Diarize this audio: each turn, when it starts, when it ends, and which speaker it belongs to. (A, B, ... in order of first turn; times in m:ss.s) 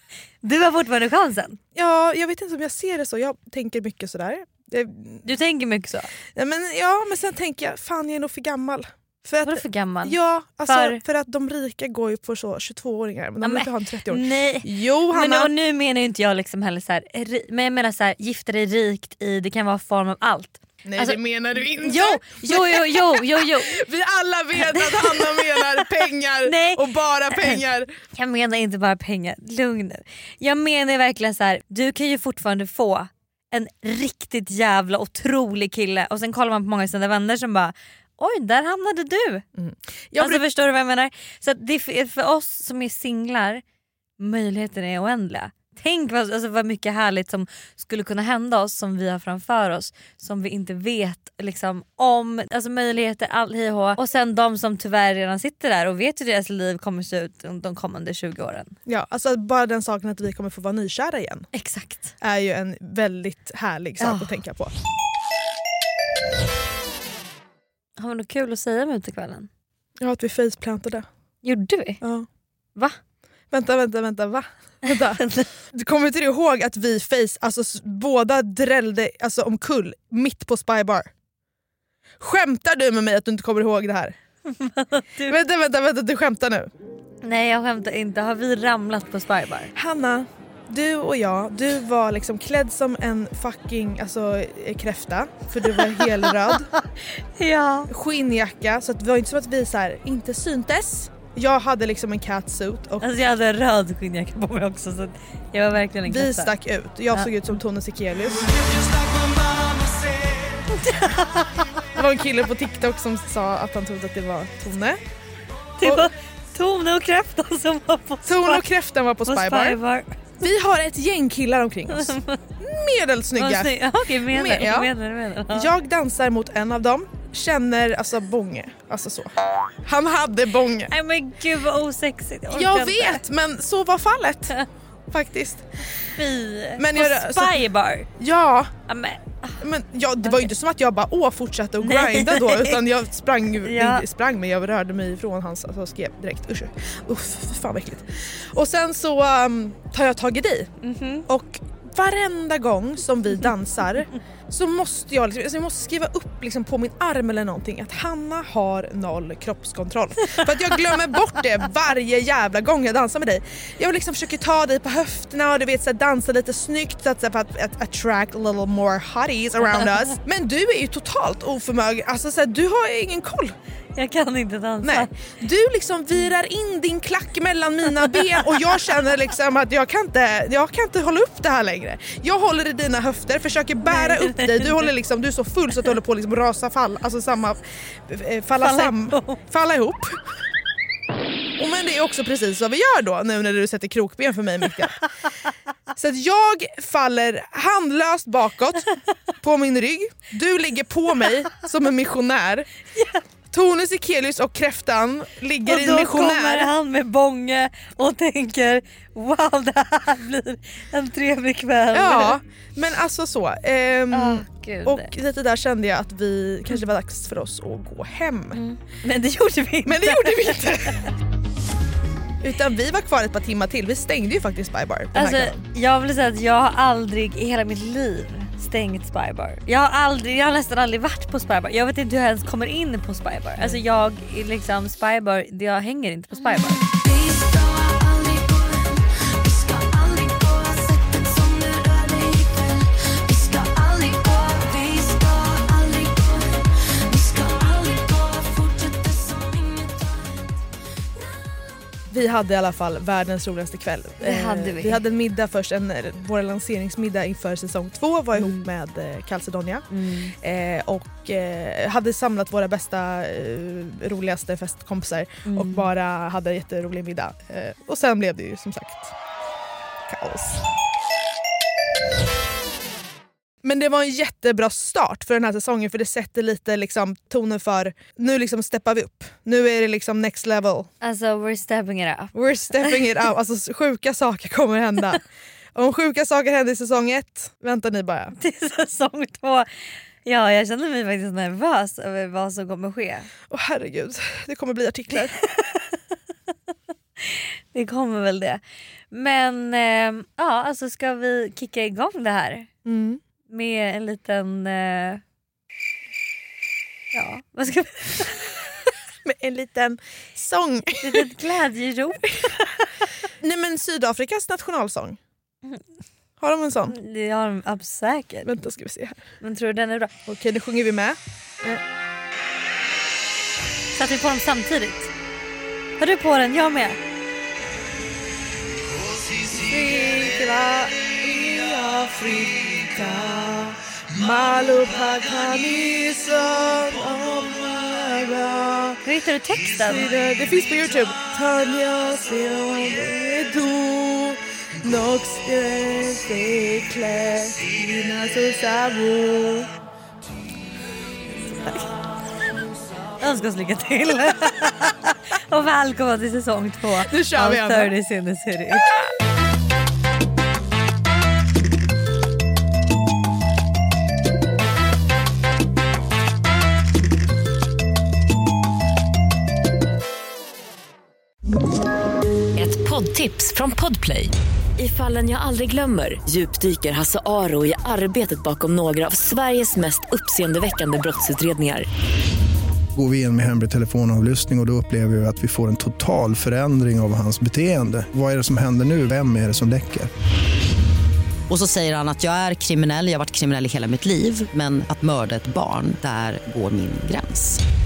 0:00.4-0:01.6 A
0:01.7-0:05.2 B
0:05.2-0:06.1 A
0:06.3-0:15.5 B
0:09.4-0:11.0 A
0:13.4-0:23.8 A
0:20.8-0:27.9 B
0:24.6-0:27.6 A
0:28.1-0:39.4 A
0:39.5-0:40.4 B
0:40.2-0:43.6 A
0:44.2-0:58.7 A
0:58.8-1:01.5 B
1:01.5-1:02.1 A
1:02.2-1:04.7 B
1:04.0-1:04.4 A
1:08.0-1:09.5 A
1:10.0-1:11.1 B
1:11.4-1:12.0 A
1:12.0-1:12.3 B
1:13.5-1:21.1 B
1:14.8-1:15.5 A
1:22.2-1:24.1 B
1:24.5-1:25.4 A
1:25.2-1:26.7 B
1:27.2-1:29.7 A
1:29.7-1:36.7 B
1:35.7-1:37.9 A
1:37.9-1:43.1 B
1:43.0-1:46.5 A
1:46.0-1:49.2 B
1:50.7-1:51.8 A
1:51.9-1:55.0 B
1:55.8-1:58.7 A
1:55.8-1:56.1 B
1:58.2-1:59.8 B
1:59.2-2:00.1 A
2:00.4-2:03.7 B
2:01.9-2:02.4 A
2:03.4-2:05.7 A
2:04.3-2:04.9 B
2:05.5-2:09.3 B
2:09.8-2:10.9 B
2:10.9-2:13.2 A
2:12.5-2:14.6 B
2:15.1-2:15.6 B
2:16.1-2:18.1 A
2:16.8-2:18.7 B
2:18.9-2:19.6 A
2:19.6-2:30.7 B
2:20.2-2:20.5 A
2:21.8-2:22.8 A
2:23.6-2:24.0 A
2:30.8-2:31.3 A
2:31.3-2:53.6 B
2:40.3-2:40.9 A
2:54.0-2:55.1 A
2:54.8-3:10.2 B
3:03.8-3:04.9 A
3:08.6-3:09.4 A
3:11.6-3:15.0 B
3:15.9-3:18.9 B
3:19.4-3:22.7 B
3:22.9-3:23.2 A
3:23.5-3:26.7 B
3:25.6-3:32.4 A
3:31.9-3:38.6 B
3:34.1-3:35.1 A
3:38.5-3:41.0 A
3:39.8-3:41.1 B
3:42.4-3:45.6 B
3:45.1-3:56.8 A
4:12.1-4:29.1 B
4:14.2-4:15.0 A
4:18.4-4:18.6 A
4:19.9-4:20.3 A
4:25.4-4:25.9 A
4:30.0-4:30.6 B
4:33.6-4:40.9 B
4:41.0-4:43.0 A
4:42.3-4:45.2 B
4:45.7-4:48.3 B
4:48.4-4:49.7 A
4:50.2-4:53.3 A
4:53.5-4:55.3 B
4:55.1-4:56.0 A
4:57.2-5:02.7 A
5:02.8-5:03.2 B
5:03.5-5:05.2 A
5:07.1-5:08.6 A
5:09.2-5:11.3 B
5:11.0-5:13.0 A
5:13.4-5:15.2 B
5:16.4-5:17.0 B
5:16.9-5:18.5 A
5:18.4-5:19.2 B
5:19.4-5:20.1 A
5:20.3-5:21.8 B
5:23.9-5:25.1 A
5:26.0-5:27.0 A
5:29.5-5:39.0 B
5:39.0-5:40.1 A
5:39.6-5:49.7 B
5:53.2-5:58.9 A
5:57.0-5:57.9 B
6:12.6-6:21.9 C
6:22.9-6:30.1 D
6:31.5-6:37.6 E